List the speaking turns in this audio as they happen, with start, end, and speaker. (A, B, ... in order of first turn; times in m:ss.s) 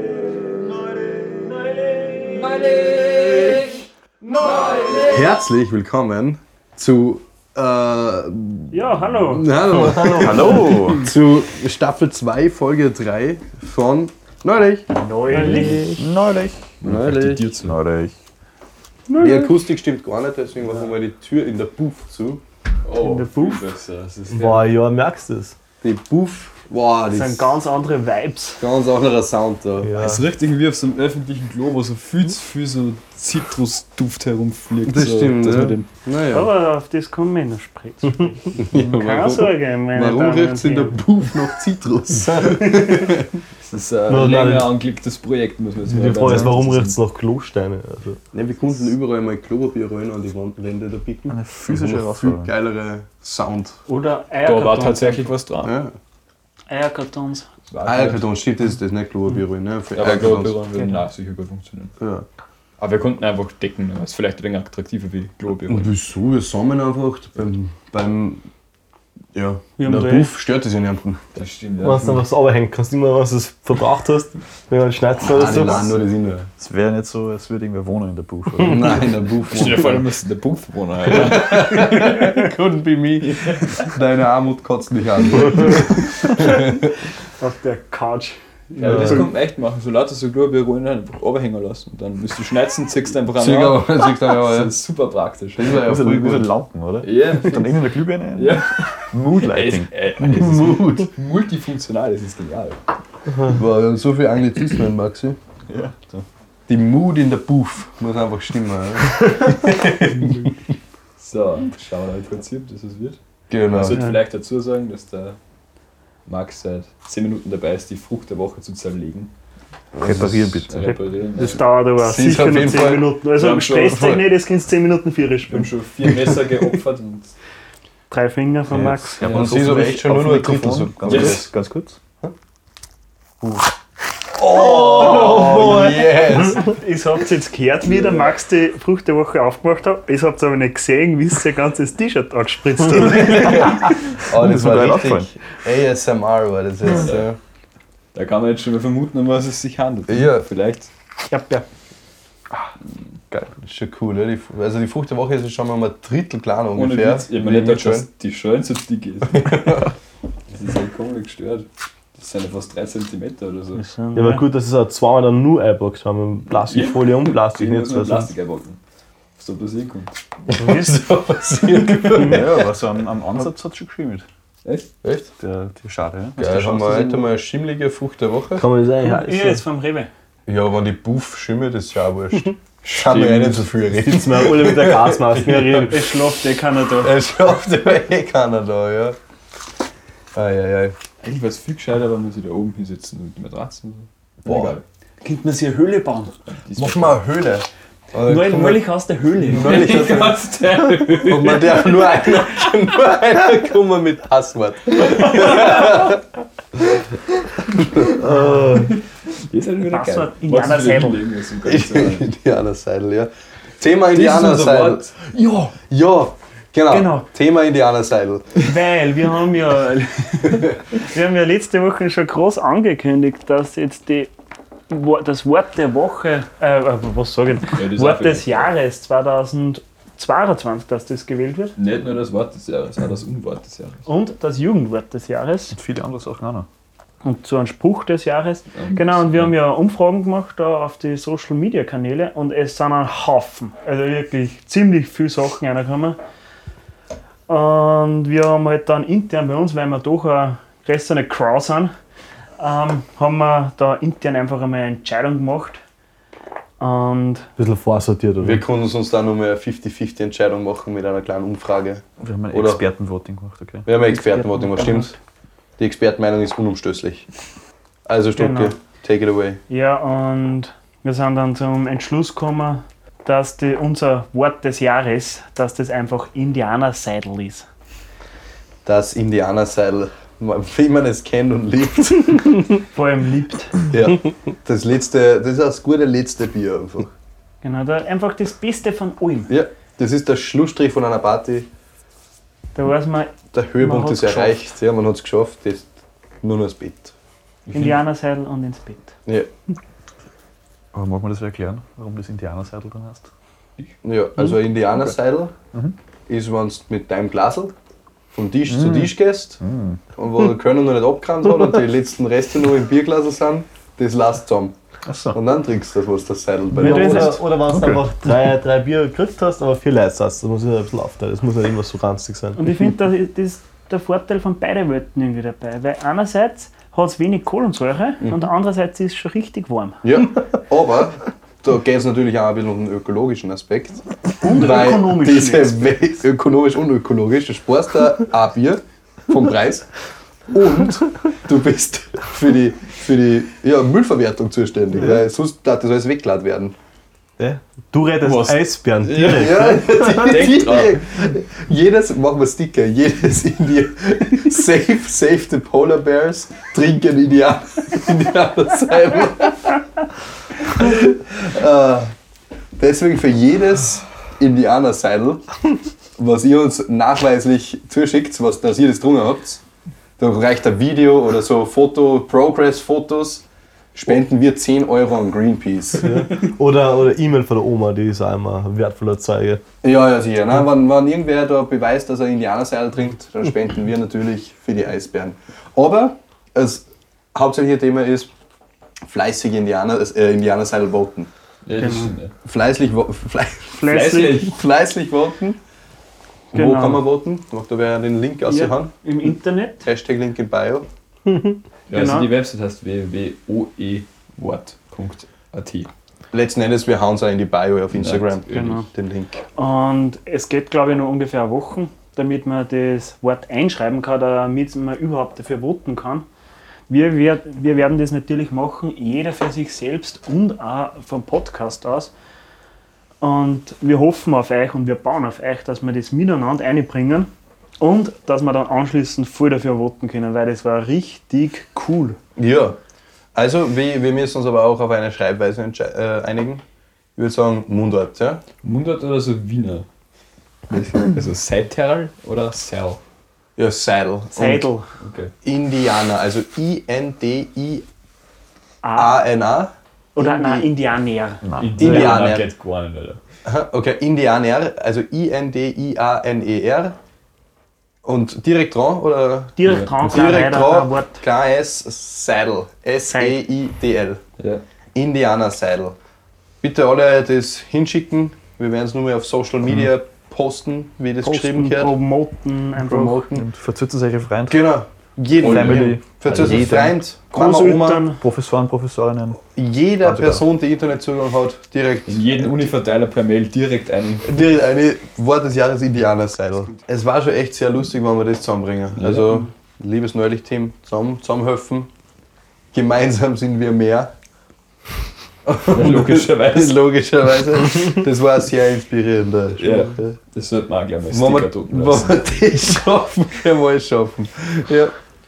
0:02.6-0:03.6 A
0:04.9-0:14.9 A
0:08.7-0:09.5 B
0:09.8-0:10.1 C
0:10.1-0:11.1 D
0:14.9-0:16.0 B
0:15.3-0:15.8 E
0:15.6-0:16.8 D
0:16.8-0:17.8 E
0:16.8-0:17.5 A
0:17.6-0:18.1 D
0:19.1-0:19.6 B
0:19.2-0:22.4 A
0:22.8-0:24.8 E
0:23.0-0:23.6 B
0:24.3-0:25.6 C
0:25.8-0:27.6 A
0:27.1-0:28.6 B
0:28.6-0:30.0 A
0:29.8-0:30.2 C
0:29.9-0:35.9 E
0:34.8-0:36.5 A
0:36.3-0:41.0 B
0:38.6-0:43.4 A
0:42.4-0:42.9 B
0:43.6-0:47.0 E
0:44.1-0:44.7 C
0:45.9-0:48.2 C
0:46.2-0:46.6 D
0:48.3-0:53.8 A
0:51.3-0:52.5 D
0:53.9-0:55.3 B
0:54.4-0:55.7 E
0:55.6-0:55.9 A
0:56.7-0:57.5 B
0:57.7-0:58.3 E
0:57.8-1:00.6 A
0:59.9-1:01.9 E
1:00.7-1:01.0 B
1:02.0-1:02.2 A
1:02.8-1:05.9 E
1:05.7-1:08.4 A
1:09.3-1:11.2 A
1:09.8-1:10.3 B
1:11.3-1:12.2 E
1:11.8-1:15.9 C
1:15.2-1:16.5 A
1:16.6-1:19.1 D
1:18.6-1:20.0 A
1:19.5-1:22.3 E
1:21.1-1:26.8 A
1:27.4-1:29.3 B
1:28.8-1:35.8 E
1:28.8-1:29.2 A
1:33.4-1:34.7 A
1:35.6-1:36.5 A
1:35.7-1:41.0 D
1:37.0-1:42.8 E
1:40.4-1:41.0 A
1:43.4-1:45.4 A
1:45.7-1:46.2 D
1:46.7-1:50.6 A
1:51.2-1:53.2 E
1:53.5-1:54.0 A
1:53.7-1:55.4 E
1:56.2-1:59.3 E
1:59.9-2:00.6 A
2:00.0-2:00.8 D
2:00.7-2:01.6 E
2:00.8-2:05.7 B
2:02.0-2:03.1 A
2:03.3-2:04.2 E
2:05.5-2:07.3 E
2:08.1-2:09.3 B
2:08.7-2:12.0 D
2:09.2-2:09.7 E
2:09.2-2:11.5 A
2:11.0-2:11.5 E
2:14.3-2:16.7 A
2:14.4-2:23.9 B
2:23.0-2:27.4 A
2:24.3-2:25.3 D
2:26.9-2:27.3 E
2:28.1-2:30.9 E
2:30.1-2:30.4 A
2:31.3-2:31.7 B
2:33.3-2:33.6 D
2:33.6-2:38.1 A
2:36.7-2:39.9 E
2:39.4-2:39.9 A
2:40.5-2:43.8 E
2:43.8-2:44.4 B
2:44.1-2:48.3 C
2:46.6-2:48.8 E
2:49.4-2:50.2 E
2:50.5-2:52.6 A
2:50.6-2:51.0 B
2:52.2-2:54.2 D
2:55.0-2:55.3 A
2:55.4-2:57.3 D
2:56.4-2:58.6 A
2:58.6-2:59.6 C
2:59.0-3:00.1 B
3:00.5-3:06.1 A
3:03.1-3:03.6 E
3:04.0-3:06.0 C
3:05.8-3:07.2 B
3:07.0-3:09.2 A
3:10.3-3:10.9 A
3:11.2-3:14.8 E
3:14.4-3:14.8 A
3:15.2-3:16.4 B
3:16.6-3:17.2 E
3:16.8-3:18.9 A
3:18.2-3:19.8 B
3:19.4-3:20.4 A
3:19.5-3:22.2 E
3:21.2-3:26.2 A
3:25.3-3:25.8 E
3:28.2-3:28.9 C
3:28.7-3:32.3 E
3:29.8-3:31.2 B
3:31.6-3:35.1 A
3:34.1-3:35.4 E
3:35.7-3:38.6 A
3:36.9-3:37.3 B
3:38.6-3:44.3 B
3:44.9-3:51.8 B
3:47.7-3:48.7 E
3:51.8-3:54.1 E
3:54.0-3:55.8 B
3:55.7-3:56.7 D
3:57.2-4:06.2 B
3:58.7-3:59.5 E
4:07.5-4:11.9 B
4:12.6-4:15.8 B
4:16.8-4:17.5 B
4:17.6-4:18.6 C
4:18.4-4:22.8 A
4:22.2-4:23.8 D
4:23.8-4:25.1 A
4:24.0-4:25.1 B
4:25.8-4:27.3 A
4:28.0-4:29.6 A
4:28.4-4:28.7 B
4:29.7-4:37.6 B
4:38.8-4:42.8 A
4:42.9-4:43.8 B
4:43.9-4:47.1 A
4:47.6-4:49.5 B
4:49.5-4:51.7 A
4:52.7-4:54.6 B
4:53.5-4:55.9 A
4:56.4-4:57.1 A
4:57.7-4:58.0 E
4:57.7-4:59.1 B
5:00.9-5:03.3 D
5:04.0-5:05.5 A
5:06.3-5:07.7 A
5:08.3-5:09.6 A
5:08.7-5:10.0 D
5:10.2-5:14.7 A
5:15.0-5:15.4 D
5:15.3-5:17.4 A
5:16.7-5:17.4 B
5:16.7-5:22.7 C
5:17.6-5:18.1 D
5:22.5-5:30.0 B
5:30.0-5:39.9 A
5:34.4-5:35.8 B
5:40.5-5:46.7 A
5:47.4-5:50.4 C
5:48.2-5:51.0 E
5:49.2-5:59.8 A
6:00.6-6:02.1 A
6:02.8-6:05.4 A
6:06.2-6:09.6 A
6:10.2-6:16.1 A
6:16.0-6:19.6 C
6:19.8-6:28.3 A
6:29.1-6:31.3 A
6:31.6-6:32.3 E
6:31.8-6:32.1 B
6:32.4-6:35.6 A
6:33.7-6:34.5 B
6:33.8-6:34.6 E
6:36.5-6:37.0 B
6:36.5-6:38.9 A
6:38.4-6:39.9 B
6:39.8-6:40.9 A
6:41.3-6:41.5 C
6:41.9-6:45.9 E
6:41.9-6:42.3 B
6:46.3-6:49.4 A
6:47.9-6:48.8 E
6:48.5-6:48.9 B
6:49.5-6:56.2 B
6:56.9-7:02.1 B
7:03.2-7:12.2 B
7:12.4-7:12.8 A
7:13.3-7:16.6 A
7:17.2-7:18.4 A
7:18.6-7:19.9 E
7:20.7-7:23.0 E
7:23.6-7:24.7 A
7:24.3-7:24.9 B
7:25.0-7:25.3 E
7:25.4-7:27.8 A
7:28.8-7:29.2 B
7:28.9-7:30.7 A
7:30.1-7:31.4 B
7:31.4-7:32.2 D
7:31.6-7:33.2 E
7:31.8-7:32.5 A
7:33.4-7:37.0 A
7:38.0-7:44.2 A
7:39.6-7:41.2 B
7:43.1-7:43.4 B
7:44.4-7:44.6 E
7:44.9-7:46.0 A
7:46.6-7:52.0 A
7:51.2-7:53.2 B
7:52.8-7:53.5 A
7:53.3-7:54.7 D
7:54.5-7:58.1 A
7:55.4-7:57.0 D
7:57.3-7:58.2 B
7:58.2-7:59.4 D
7:59.5-8:02.4 A
8:00.0-8:00.4 D
8:02.1-8:04.4 E
8:04.2-8:11.9 A
8:08.9-8:09.4 E
8:12.7-8:14.1 A
8:15.4-8:20.2 A
8:15.7-8:16.8 E
8:19.6-8:22.3 E
8:21.1-8:24.9 A